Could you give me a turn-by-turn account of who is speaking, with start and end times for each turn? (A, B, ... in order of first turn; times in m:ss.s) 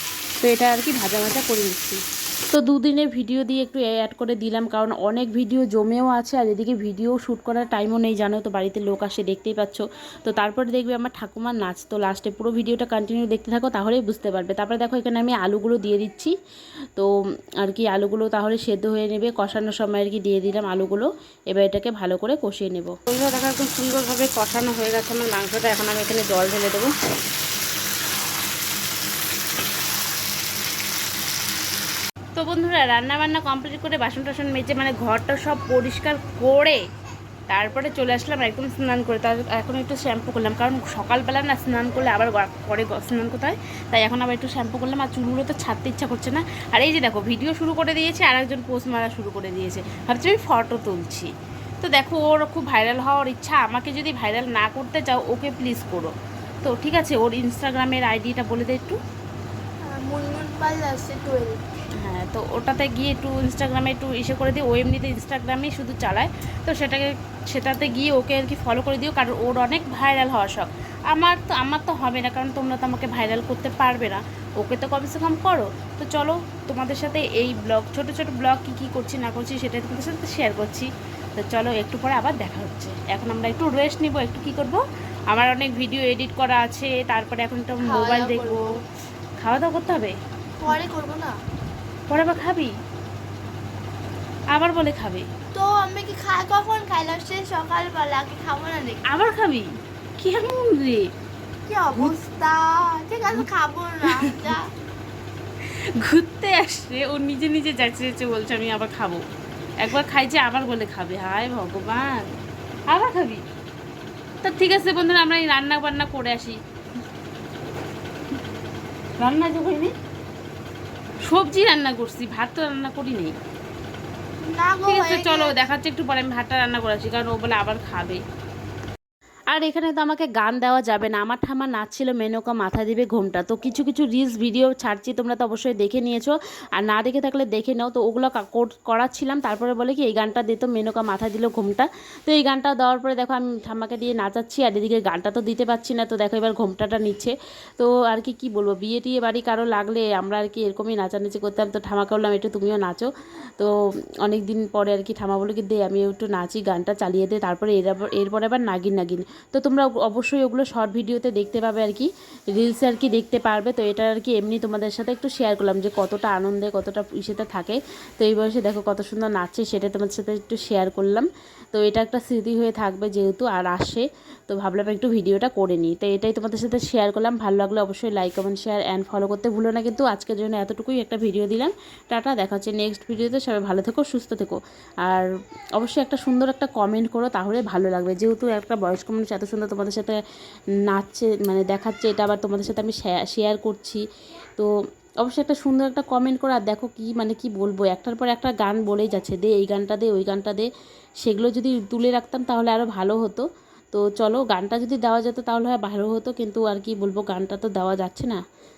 0:00.4-0:02.0 A
0:02.5-0:16.3 A
0:17.6-0:26.9 A
0:32.4-0:36.8 A
0:37.5-0:51.3 A
0:51.8-0:56.1 A
0:56.6-0:59.0 A
0:59.9-1:01.6 B
1:02.0-1:24.8 A
1:25.3-1:28.6 A
1:27.8-1:28.7 B
1:29.4-1:30.1 A
1:30.6-1:31.3 B
1:32.1-1:32.7 A
1:34.5-1:35.2 A
1:35.5-1:39.0 B
1:39.1-1:39.7 A
1:40.2-1:41.0 A
1:41.7-1:44.7 B
1:45.7-1:49.2 A
1:49.8-1:52.2 A
1:52.9-1:53.4 A
1:54.4-1:56.6 A
1:59.2-1:59.9 A
2:01.3-2:03.3 A
2:04.4-2:05.6 B
2:04.9-2:08.2 A
2:09.5-2:33.7 A
2:34.2-3:05.3 A
3:05.8-3:10.2 A
3:10.9-3:14.0 A
3:15.2-3:20.7 A
3:21.2-3:28.4 A